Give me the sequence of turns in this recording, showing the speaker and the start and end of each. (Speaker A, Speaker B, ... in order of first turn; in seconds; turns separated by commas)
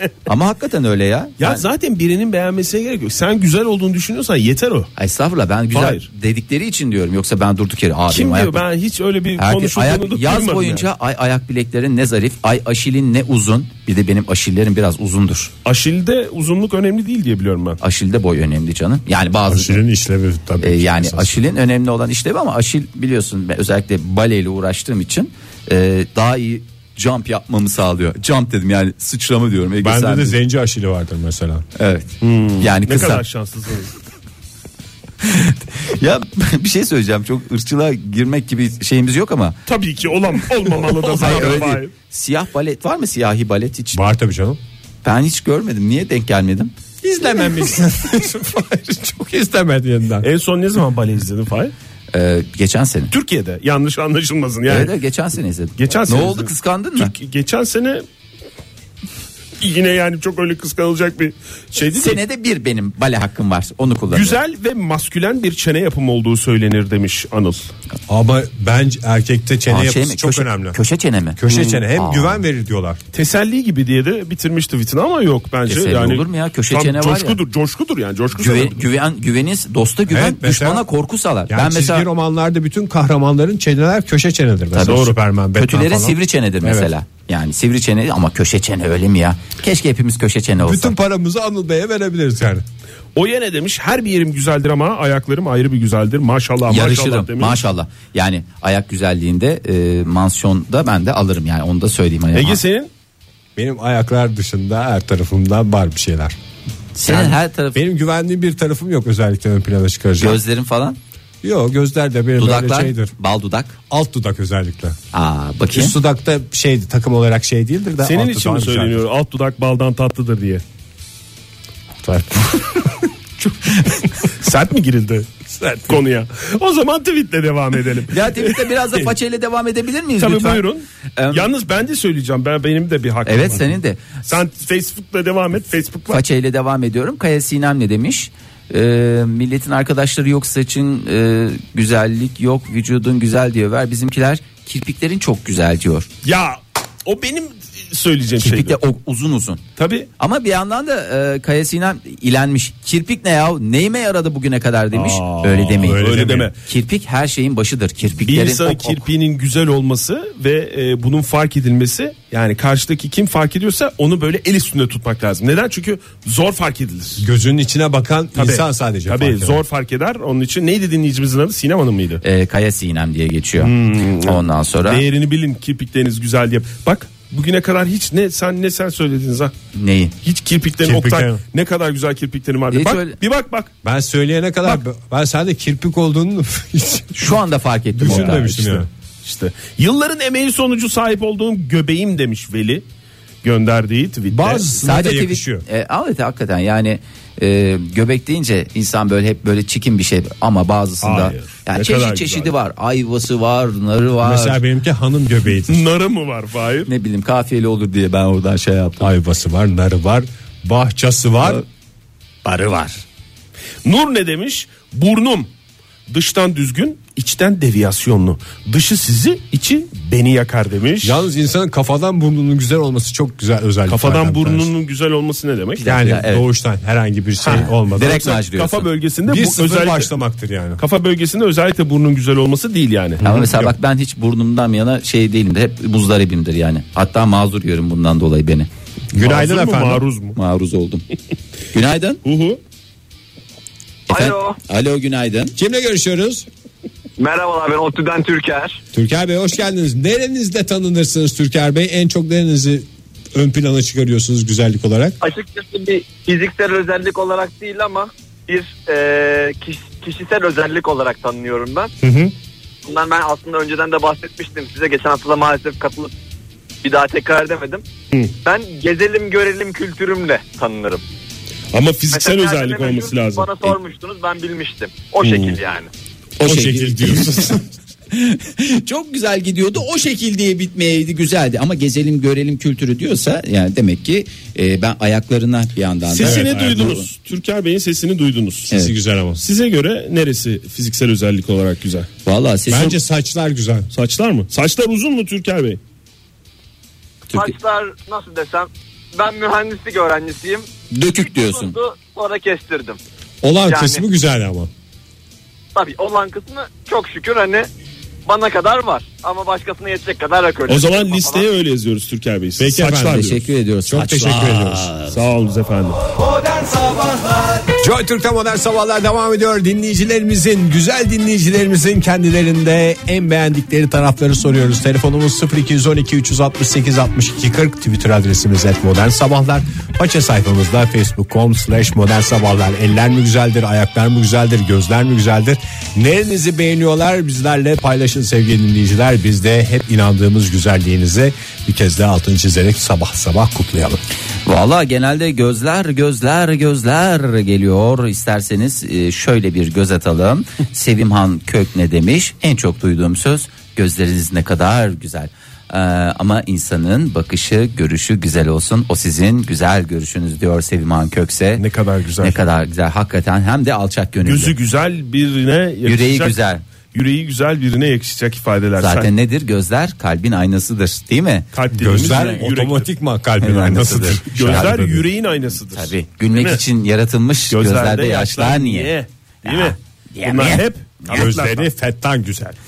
Speaker A: 0.2-1.6, Speaker B: 1.4-4.9, Speaker A: 5.0-8.6, Speaker B: 5.7-6.0, Speaker B: 8.1-10.9, Speaker A: 9.4-15.5, Speaker B: 15.6-17.8, Speaker A: 17.8-19.8, Speaker C: 19.5-21.4, Speaker A: 20.6-30.4, Speaker C: 29.8-31.6, Speaker A: 31.8-33.2, Speaker B: 32.2-33.9, Speaker A: 35.2-39.6, Speaker B: 39.7-41.9, Speaker A: 40.8-44.0, Speaker C: 43.9-44.6, Speaker A: 45.0-46.7, Speaker C: 47.0-50.3, Speaker B: 50.2-51.7, Speaker A: 52.1-53.1, Speaker B: 53.1-54.9, Speaker A: 54.7-57.1, Speaker B: 55.8-58.0, Speaker B: 59.6-62.2, Speaker A: 61.9-64.4, Speaker B: 64.1-67.7, Speaker C: 68.1-70.8, Speaker A: 69.7-72.4, Speaker C: 71.4-73.0, Speaker B: 71.5-71.8, Speaker B: 73.1-78.8, Speaker A: 75.7-77.4, Speaker A: 78.3-82.1, Speaker C: 80.1-80.8, Speaker C: 81.5-86.9, Speaker A: 84.7-90.9, Speaker B: 84.8-85.2, Speaker C: 90.6-92.6, Speaker B: 93.1-97.6, Speaker A: 96.7-102.6, Speaker B: 102.3-102.9, Speaker C: 103.5-106.3, Speaker A: 106.9-107.8, Speaker C: 107.0-110.4, Speaker A: 110.2-111.0, Speaker C: 111.4-113.1, Speaker A: 112.4-113.8, Speaker C: 113.9-115.0, Speaker A: 115.1-115.9, Speaker C: 115.7-119.0, Speaker B: 118.0-120.6, Speaker C: 122.0-123.0, Speaker B: 124.2-125.3, Speaker C: 125.5-126.0, Speaker B: 125.9-129.1, Speaker A: 128.1-130.6, Speaker B: 130.2-136.2, Speaker A: 131.2-131.5, Speaker A: 133.2-134.0, Speaker A: 136.1-146.1, Speaker B: 146.2-148.8, Speaker A: 148.4-149.6, Speaker B: 149.8-150.1, Speaker A: 150.2-156.0, Speaker B: 154.9-156.6, Speaker C: 155.8-156.5, Speaker A: 156.6-159.0, Speaker B: 158.2-167.2, Speaker C: 167.2-169.6, Speaker B: 168.3-172.2, Speaker A: 172.2-175.0, Speaker B: 173.6-179.5, Speaker A: 179.7-180.1, Speaker B: 180.2-183.7, Speaker C: 180.8-181.4, Speaker A: 182.7-183.2, Speaker C: 183.8-187.4, Speaker A: 187.1-188.9, Speaker C: 187.9-188.9, Speaker B: 188.1-188.4, Speaker B: 189.2-192.8, Speaker B: 193.4-194.7, Speaker C: 194.3-195.6, Speaker A: 194.8-204.6, Speaker B: 201.0-202.5, Speaker C: 204.2-205.8, Speaker B: 205.7-206.9, Speaker A: 206.9-209.1, Speaker C: 209.0-211.6, Speaker A: 212.4-213.0, Speaker B: 213.8-215.5, Speaker B: 216.1-221.2, Speaker C: 221.0-224.7, Speaker B: 223.9-225.9, Speaker A: 225.8-226.4, Speaker C: 225.8-228.2, Speaker B: 227.4-230.1, Speaker A: 227.5-228.9, Speaker C: 229.2-230.8, Speaker B: 230.8-233.2, Speaker A: 233.2-238.7, Speaker C: 233.2-233.7, Speaker C: 239.1-240.0, Speaker B: 239.2-240.4, Speaker A: 240.3-241.0, Speaker A: 241.7-242.2, Speaker B: 242.2-242.6, Speaker D: 244.1-244.6, Speaker A: 244.1-245.5, Speaker C: 245.6-246.4, Speaker D: 247.2-248.8, Speaker C: 248.9-255.2, Speaker D: 255.2-261.9, Speaker C: 262.0-262.3, Speaker D: 262.8-266.1, Speaker D: 266.8-267.8, Speaker D: 268.4-271.0, Speaker B: 271.7-273.8, Speaker D: 272.1-275.9, Speaker B: 275.2-275.6, Speaker A: 276.4-277.5, Speaker C: 276.4-277.7, Speaker A: 278.1-287.1, Speaker B: 286.1-288.7, Speaker C: 286.2-287.0, Speaker C: 288.7-289.4, Speaker B: 289.4-292.1, Speaker A: 292.2-293.0, Speaker C: 292.7-293.9, Speaker B: 293.9-295.8, Speaker A: 297.3-297.5, Speaker D: 297.3-303.0, Speaker A: 300.9-301.8, Speaker C: 303.4-304.7, Speaker D: 303.6-304.0, Speaker D: 305.7-307.7, Speaker D: 308.2-311.5, Speaker B: 310.7-313.4, Speaker C: 312.6-313.4, Speaker A: 313.1-315.2, Speaker C: 313.9-314.9, Speaker B: 315.1-316.0, Speaker C: 317.8-344.0, Speaker A: 344.4-361.6, Speaker B: 361.6-362.4, Speaker A: 362.2-364.5, Speaker B: 364.2-366.4, Speaker A: 365.9-366.6, Speaker B: 366.9-369.1, Speaker A: 368.8-371.5, Speaker B: 371.5-372.9, Speaker C: 371.7-375.0, Speaker A: 373.4-374.7, Speaker B: 374.3-376.6, Speaker A: 375.7-378.9, Speaker B: 377.5-381.7, Speaker A: 379.4-381.2, Speaker C: 381.1-382.6